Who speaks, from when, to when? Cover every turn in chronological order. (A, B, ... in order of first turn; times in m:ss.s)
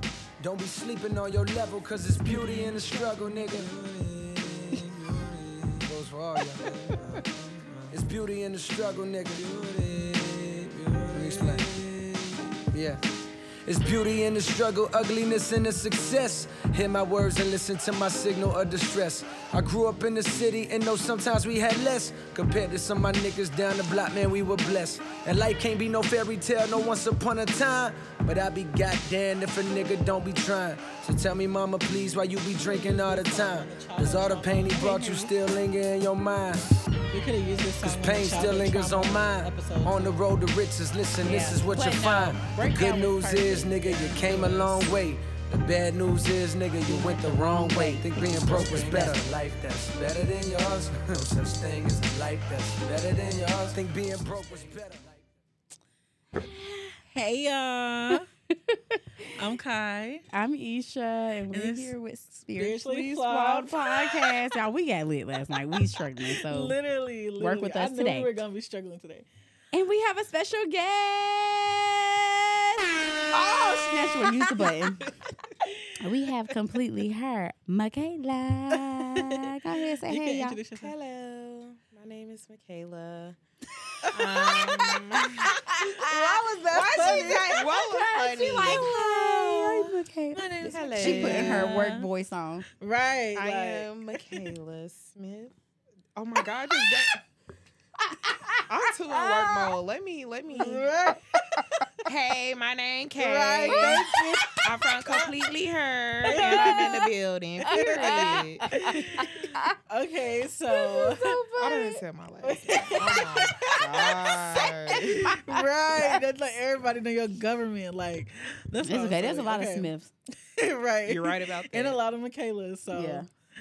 0:00.4-0:05.2 A
0:02.4-0:02.7 B
0:05.7-0:07.2 A
0:07.9-0:10.5 A
0:11.1-0:11.8 A
0:12.7-0:36.9 A
0:32.6-0:34.9 C
0:34.7-0:35.3 B
0:37.1-0:40.2 C
0:37.8-0:55.2 A
0:41.2-0:44.1 B
0:43.8-0:44.8 C
0:46.8-0:49.2 B
0:56.4-0:56.9 B
0:57.1-0:58.3 C
0:58.1-0:59.3 B
0:59.4-1:00.2 C
1:00.3-1:06.8 B
1:01.5-1:01.9 C
1:02.5-1:04.6 C
1:05.7-1:09.3 C
1:07.4-1:08.4 B
1:09.7-1:15.0 B
1:13.3-1:15.4 D
1:15.6-1:16.3 C
1:16.0-1:20.6 B
1:18.7-1:20.9 C
1:20.8-1:23.4 D
1:24.0-1:27.6 C
1:24.1-1:25.5 D
1:25.4-1:32.7 B
1:26.7-1:28.9 D
1:28.6-1:31.8 C
1:30.6-1:32.0 D
1:32.8-1:34.3 C
1:33.3-1:35.5 D
1:36.2-1:37.2 D
1:36.8-1:37.1 C
1:38.1-1:38.6 C
1:38.7-1:40.9 D
1:39.2-1:39.7 C
1:40.5-1:41.9 C
1:42.0-1:44.0 D
1:43.2-1:45.3 C
1:43.6-1:44.6 B
1:44.6-1:49.5 D
1:46.2-1:47.1 C
1:46.4-1:46.8 B
1:47.6-1:51.4 C
1:47.6-1:49.8 B
1:50.7-1:52.0 B
1:51.6-1:55.2 D
1:52.4-1:59.9 C
1:54.9-1:56.2 B
1:58.8-2:00.1 B
2:00.5-2:03.2 C
2:01.0-2:02.0 D
2:02.9-2:03.3 B